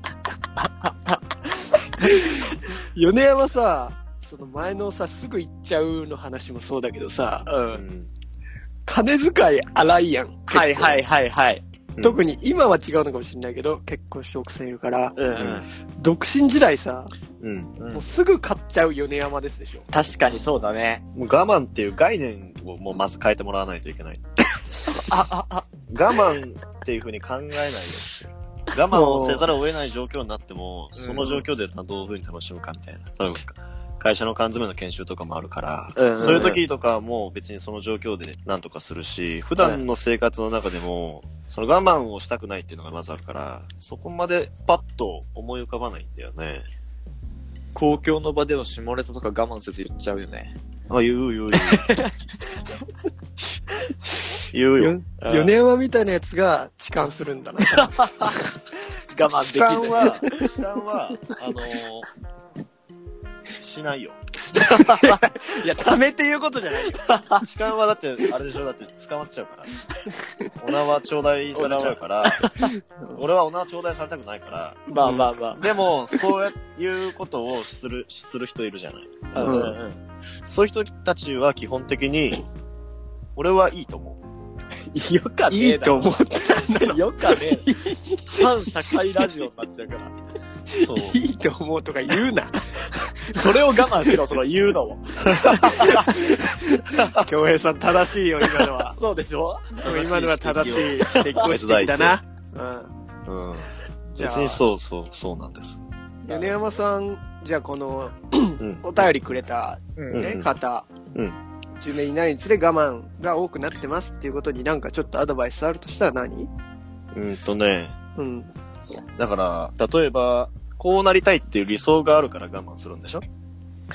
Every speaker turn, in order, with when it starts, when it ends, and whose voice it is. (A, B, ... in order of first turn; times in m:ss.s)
0:00.6-0:02.2 A
0:02.0-0:07.5 B
0:07.5-0:07.8 A
0:07.7-0:08.1 C
0:08.9-0:11.0 B
0:10.5-0:11.6 A
0:12.0-0:15.2 B
0:15.2-0:15.6 A
0:15.4-0:15.7 C
0:15.9-0:17.1 B
0:17.4-0:18.0 C
0:17.9-0:19.9 B
0:19.9-0:21.0 A
0:21.2-0:24.2 C
0:24.9-0:25.7 A
0:25.9-0:46.7 C
0:28.9-0:29.5 B
0:31.0-0:31.3 A
0:31.2-0:31.4 B
0:36.0-0:36.6 A
0:47.7-0:50.6 A
0:50.9-0:51.9 C
0:51.5-0:52.1 A
0:54.5-0:55.0 C
0:54.8-0:58.3 B
0:55.2-0:55.5 A
0:57.7-0:58.4 A
0:59.1-1:00.6 A
0:59.4-1:02.1 C
1:03.6-1:04.2 C
1:04.5-1:05.2 A
1:04.8-1:07.0 B
1:07.1-1:07.4 A
1:07.4-1:09.8 C
1:10.6-1:12.5 C
1:11.5-1:12.7 A
1:13.1-1:19.8 C
1:14.9-1:15.6 A
1:15.0-1:15.3 B
1:19.3-1:20.0 A
1:19.4-1:19.8 B
1:20.4-1:22.5 C
1:23.4-1:24.2 C
1:24.9-1:26.1 A
1:25.5-1:28.5 B
1:26.8-1:27.7 A
1:28.3-1:30.1 A
1:30.7-1:34.1 B
1:30.8-1:31.2 C
1:33.3-1:36.2 A
1:35.3-1:36.0 C
1:35.5-1:39.0 B
1:38.8-1:41.5 A
1:39.8-1:42.9 B
1:40.5-1:42.2 C
1:43.3-1:45.8 C
1:44.2-1:44.6 B
1:46.2-1:51.0 B
1:46.3-1:46.6 A
1:48.6-1:49.1 C
1:50.0-1:50.3 A
1:50.1-1:50.5 C
1:51.8-1:56.5 B
1:57.1-1:58.0 C
1:58.2-1:58.5 B
1:59.2-2:03.2 C